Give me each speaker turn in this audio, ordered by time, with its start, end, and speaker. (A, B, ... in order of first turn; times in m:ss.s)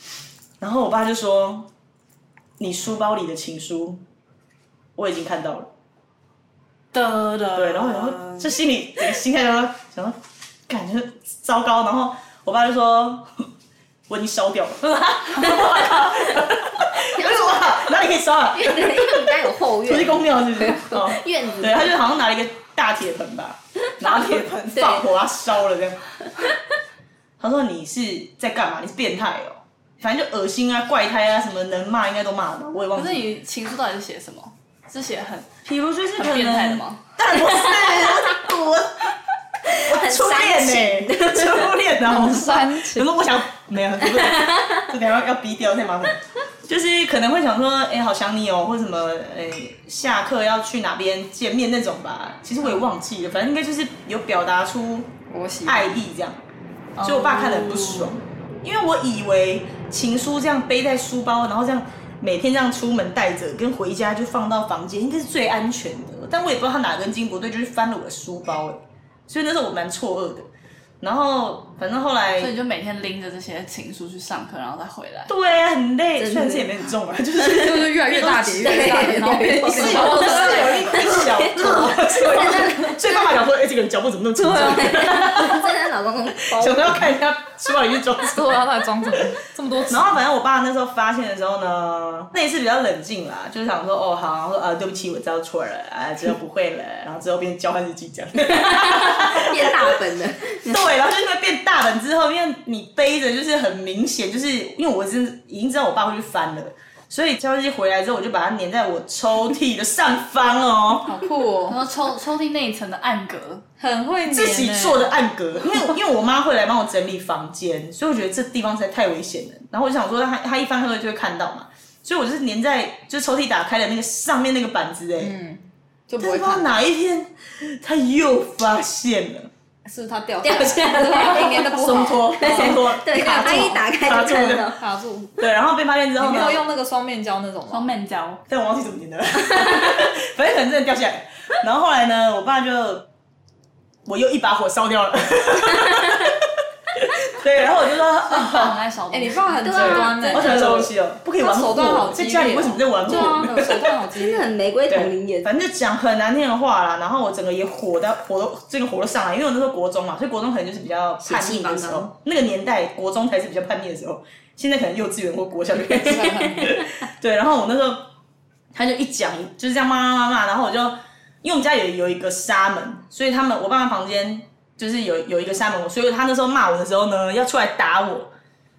0:00.6-0:01.7 A
0:02.6-0:04.0 A
0:05.0-0:05.7 A
0:06.9-0:08.5 B
0:07.6-0:13.3 A
0:14.1-0:26.0 A
0:17.1-0:17.9 C
0:18.5-0:21.9 C
0:24.0-0:25.1 C
0:27.4-0:33.2 A
0:32.9-0:35.5 B
0:35.6-0:39.1 A
0:36.2-0:37.0 B
0:37.5-0:38.4 C
0:39.7-0:41.7 C
0:39.8-0:55.1 A
0:42.0-0:43.1 D
0:44.1-0:44.8 C
0:55.3-0:56.0 D
0:55.6-0:56.4 A
0:57.0-0:58.2 B
0:57.0-1:10.5 A
1:11.0-1:12.5 A
1:12.4-1:15.3 B
1:15.2-1:19.0 A
1:16.2-1:16.7 C
1:17.4-1:17.6 C
1:17.5-1:21.1 D
1:18.2-1:23.4 C
1:19.7-1:25.7 A
1:24.4-1:27.1 C
1:26.5-1:29.2 A
1:28.2-1:30.2 D
1:29.9-1:40.0 A
1:38.9-1:40.8 C
1:40.6-1:51.2 A
1:51.1-1:51.8 D
1:51.7-1:53.6 B
1:53.8-1:55.1 D
1:54.2-2:05.4 A
2:05.2-2:06.8 D
2:06.2-2:09.5 A
2:09.8-2:13.8 D
2:10.4-2:14.8 C
2:10.8-2:14.7 A
2:14.8-2:15.3 D
2:15.4-2:16.7 A
2:16.2-2:17.9 D
2:17.7-2:18.4 B
2:18.5-2:23.0 A
2:19.4-2:19.9 C
2:24.0-2:26.3 A
2:27.2-2:28.8 A
2:28.3-2:30.0 B
2:29.1-2:34.5 D
2:29.6-2:30.8 C
2:30.3-2:33.8 A
2:33.1-2:33.5 C
2:34.1-2:35.5 C
2:34.9-2:48.0 A
2:41.2-2:42.1 C
2:46.0-2:46.8 D
2:48.7-2:58.3 A